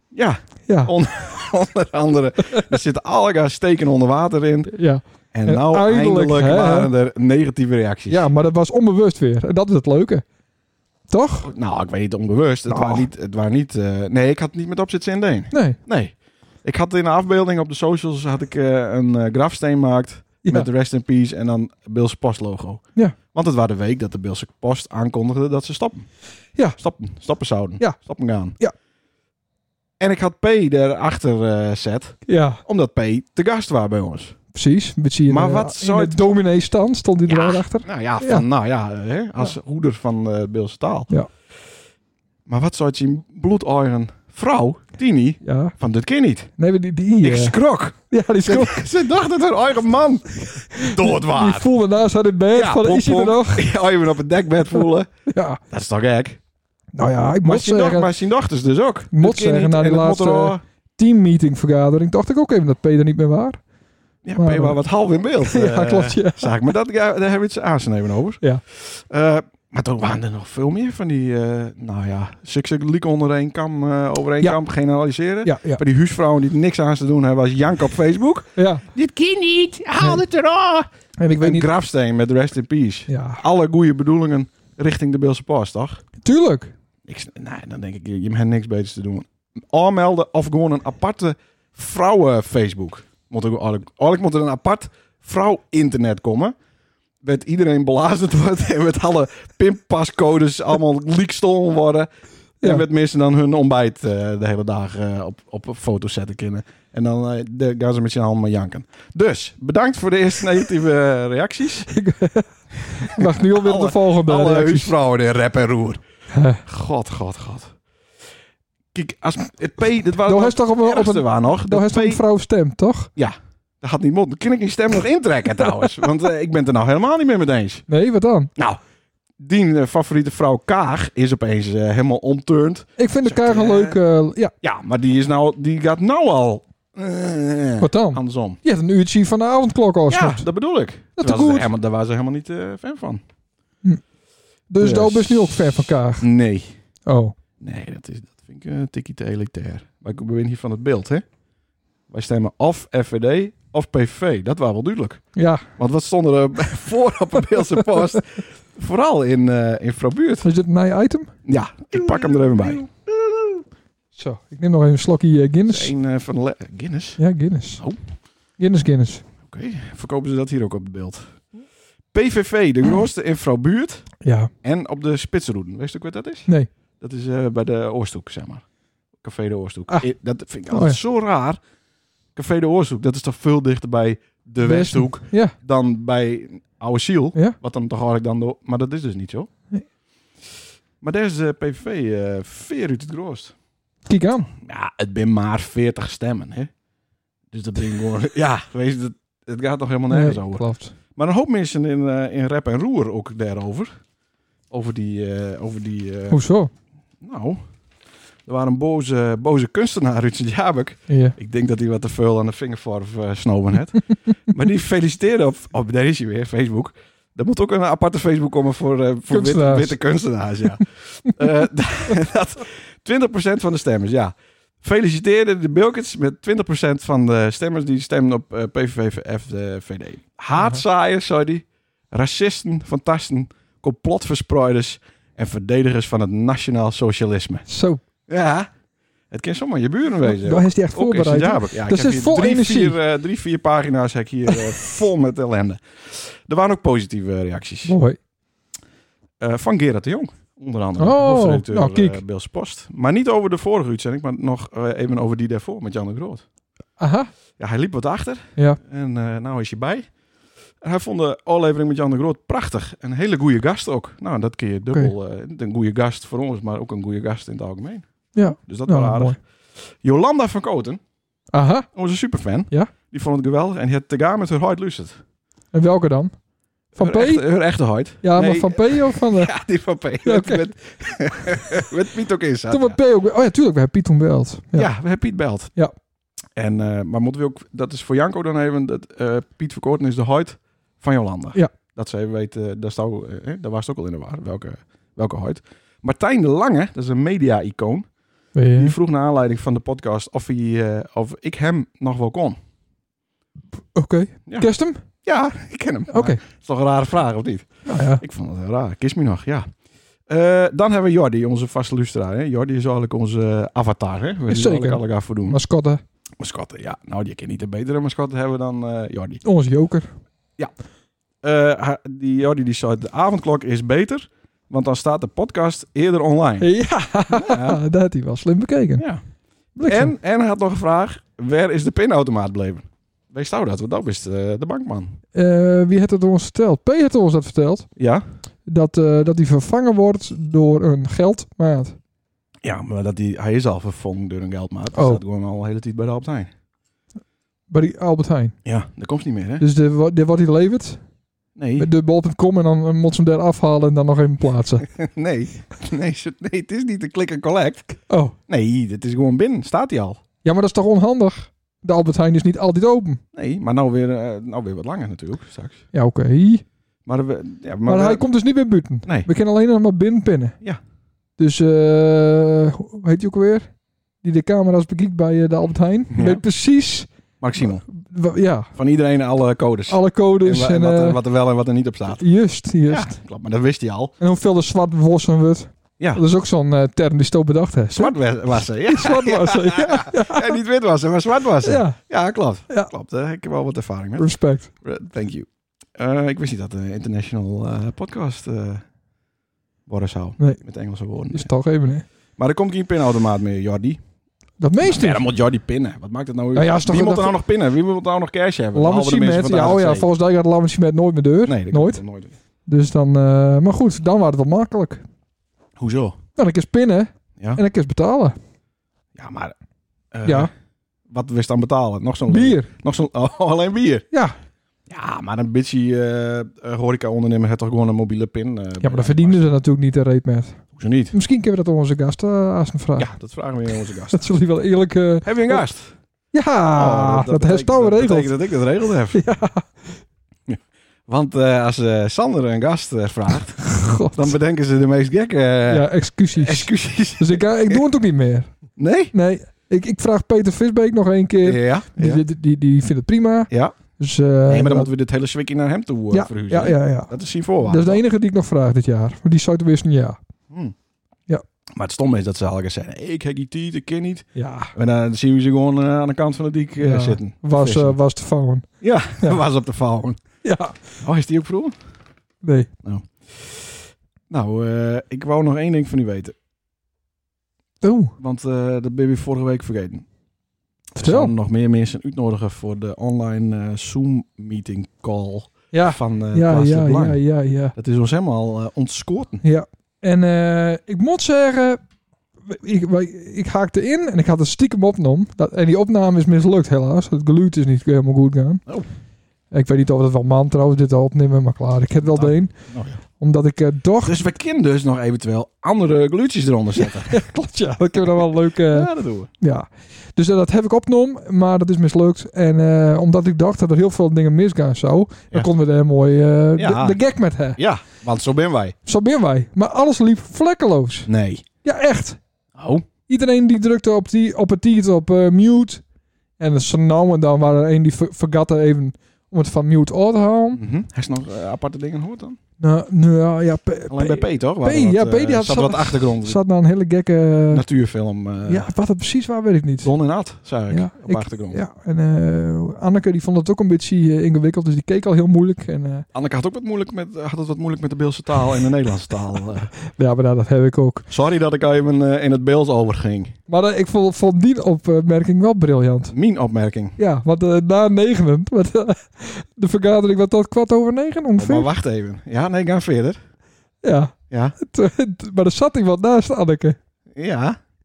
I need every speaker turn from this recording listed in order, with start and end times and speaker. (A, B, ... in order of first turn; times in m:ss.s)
0:00.1-0:04.7 A
0:00.7-0:00.9 B
0:04.7-0:06.9 B
0:05.3-0:08.2 A
0:08.1-0:10.2 B
0:11.1-0:11.5 B
0:11.4-0:26.1 A
0:12.7-0:13.0 B
0:15.5-0:15.8 B
0:26.8-0:28.6 A
0:30.0-0:34.4 A
0:32.2-0:32.6 B
0:34.5-0:38.4 B
0:35.3-0:36.3 A
0:37.2-0:41.1 A
0:42.5-0:46.5 A
0:45.4-0:45.7 B
0:46.6-0:47.6 B
0:47.2-0:51.7 A
0:48.1-0:48.9 B
0:50.7-0:53.7 B
0:52.5-0:55.1 A
0:55.3-0:55.6 B
0:55.7-0:56.4 A
0:56.9-0:58.1 B
0:57.4-1:00.6 A
0:59.1-1:03.6 B
1:04.2-1:20.9 A
1:04.4-1:04.8 B
1:05.4-1:06.6 B
1:15.4-1:15.8 B
1:18.6-1:18.8 B
1:21.2-1:21.7 B
1:21.4-1:26.0 A
1:23.1-1:23.4 B
1:26.2-1:26.7 B
1:27.1-1:36.5 A
1:37.2-1:42.1 A
1:42.6-1:51.9 A
1:51.9-1:54.9 B
1:53.0-1:56.0 A
1:56.3-1:56.6 B
1:56.6-1:57.7 A
1:58.9-2:02.2 A
2:00.2-2:03.1 B
2:03.2-2:07.8 A
2:07.9-2:08.5 B
2:09.4-2:14.0 A
2:13.0-2:14.5 B
2:14.6-2:18.6 A
2:17.8-2:20.4 B
2:20.1-2:23.2 A
2:21.2-2:21.7 B
2:24.7-2:26.3 B
2:24.8-2:25.6 A
2:26.2-2:26.7 A
2:27.0-2:27.3 B
2:27.6-2:31.2 A
2:32.1-2:35.2 A
2:35.3-2:35.6 B
2:35.7-2:40.5 A
2:40.4-2:41.3 B
2:41.4-2:42.8 A
2:41.9-2:42.9 B
2:44.1-2:45.9 B
2:45.6-2:47.2 A
2:47.2-2:47.8 B
2:48.6-2:49.2 B
2:49.4-2:51.4 A
2:52.1-2:54.1 A
2:54.2-2:54.5 B
2:54.6-2:56.5 A
2:57.0-2:58.6 A
2:59.2-3:01.6 A
3:00.7-3:01.0 B
3:02.3-3:09.5 A
3:04.6-3:05.5 B
3:11.0-3:13.5 A
3:14.0-3:14.5 B
3:14.6-3:16.7 A
3:17.5-3:23.9 A
3:20.1-3:20.9 B
3:24.7-3:26.4 A
3:26.3-3:26.7 B
3:27.2-3:27.6 A
3:28.4-3:57.7 A
3:31.1-3:31.4 B
3:39.3-3:40.0 B
3:57.7-3:58.0 B
3:58.2-3:58.7 A
3:59.3-4:08.0 A
4:00.2-4:03.0 B
4:07.8-4:08.2 B
4:09.4-4:16.4 A
4:11.0-4:12.2 B
4:17.0-4:17.3 B
4:17.6-4:20.1 A
4:20.8-4:28.1 A
4:28.3-4:29.4 B
4:28.6-4:29.4 A
4:30.0-4:31.0 A
4:31.5-4:31.9 B
4:31.9-4:35.2 A
4:35.7-4:36.3 B
4:36.9-4:37.4 B
4:37.0-4:43.0 A
4:38.2-4:39.5 B
4:40.2-4:40.6 B
4:42.7-4:44.9 B
4:44.8-4:45.7 A
4:46.6-4:58.1 A
4:58.5-4:58.9 B
4:58.8-5:02.6 A
5:03.9-5:05.0 B
5:05.2-5:09.7 A
5:06.1-5:06.4 B
5:07.8-5:08.2 B
5:10.3-5:15.6 A
5:14.5-5:16.0 B
5:16.4-5:19.4 A
5:19.4-5:20.1 B
5:21.4-5:26.7 A
5:26.6-5:29.0 B
5:27.3-5:27.8 A
5:29.0-5:29.2 A
5:29.7-5:30.1 B
5:29.8-5:35.2 A
5:35.3-5:37.9 B
5:38.0-5:38.2 A
5:38.6-5:42.0 B
5:42.6-5:46.5 A
5:44.9-5:45.2 B
5:47.7-5:48.6 B
5:48.6-5:49.6 A
5:49.6-5:51.0 B
5:51.6-5:51.9 A
5:51.8-5:54.9 B
5:54.9-6:00.2 A
5:58.1-5:58.4 B
6:00.4-6:03.2 B
6:03.3-6:05.8 A
6:05.9-6:06.6 B
6:07.0-6:08.3 A
6:07.9-6:10.6 B
6:09.0-6:09.3 A
6:11.4-6:13.7 B
6:14.2-6:18.7 B
6:16.1-6:16.4 A
6:17.4-6:17.8 A
6:18.7-6:22.2 A
6:19.9-6:21.2 B
6:22.2-6:23.1 B
6:22.9-6:24.1 A
6:24.2-6:30.6 B
6:27.9-6:38.8 A
6:31.6-6:32.0 B
6:34.2-6:34.7 B
6:39.9-6:41.5 A
6:41.3-6:42.0 B
6:42.4-6:44.0 A
6:44.6-6:45.2 B
6:44.8-6:50.1 A
6:46.5-6:47.4 B
6:48.7-6:52.0 B
6:51.4-6:52.3 A
6:52.6-6:55.0 B
6:55.8-6:56.2 A
6:56.4-6:58.4 B
6:59.1-6:59.5 A
7:00.1-7:00.5 A
7:00.2-7:00.5 B
7:01.1-7:04.1 A
7:02.3-7:02.7 B
7:04.9-7:09.5 A
7:08.8-7:13.1 B
7:10.7-7:11.1 A
7:13.0-7:14.2 A
7:14.1-7:15.6 B
7:15.2-7:15.9 A
7:16.3-7:18.5 B
7:16.7-7:19.2 A
7:19.1-7:20.0 B
7:20.5-7:27.8 A
7:23.6-7:24.4 B
7:25.7-7:28.5 B
7:28.8-7:29.1 A
7:29.1-7:34.9 B
7:31.4-7:32.2 A
7:33.5-7:33.8 A
7:34.5-7:38.0 A
7:36.1-7:40.2 B
7:41.7-7:48.0 A
7:44.3-7:44.7 B
7:46.8-7:48.7 B
7:48.8-7:50.2 A
7:50.4-7:50.8 B
7:51.0-7:51.7 A
7:52.4-7:52.7 B
7:52.8-7:56.4 A
7:57.8-7:58.1 B
7:58.2-8:00.1 A
8:00.9-8:07.2 A
8:01.0-8:01.3 B
8:05.7-8:07.7 B
8:07.7-8:09.4 A
8:09.4-8:11.8 B
8:12.4-8:18.6 B
8:19.5-8:22.6 B
8:22.0-8:23.0 A
8:23.2-8:24.2 B
8:24.0-8:27.2 A
8:26.8-8:28.9 B
8:28.7-8:29.3 A
8:29.4-8:37.6 B
8:36.6-8:37.0 A
8:37.6-8:38.7 A
8:38.8-8:41.1 B
8:41.1-8:41.4 A
8:41.6-8:42.2 B
8:42.6-8:42.8 A
8:43.1-8:45.8 B
8:46.4-8:50.6 B
8:50.5-8:52.4 A
8:52.6-8:57.6 B
8:53.9-8:56.4 A
8:57.5-8:58.7 A
8:58.5-8:59.9 B
8:59.8-9:01.6 A
9:00.7-9:06.0 B
9:06.1-9:09.7 A
9:09.9-9:11.0 B
9:11.1-9:13.3 A
9:13.5-9:16.1 B
9:16.1-9:17.0 A
9:17.0-9:21.7 B
9:21.4-9:23.2 A
9:23.8-9:26.8 B
9:24.3-9:24.6 A
9:27.1-9:27.6 A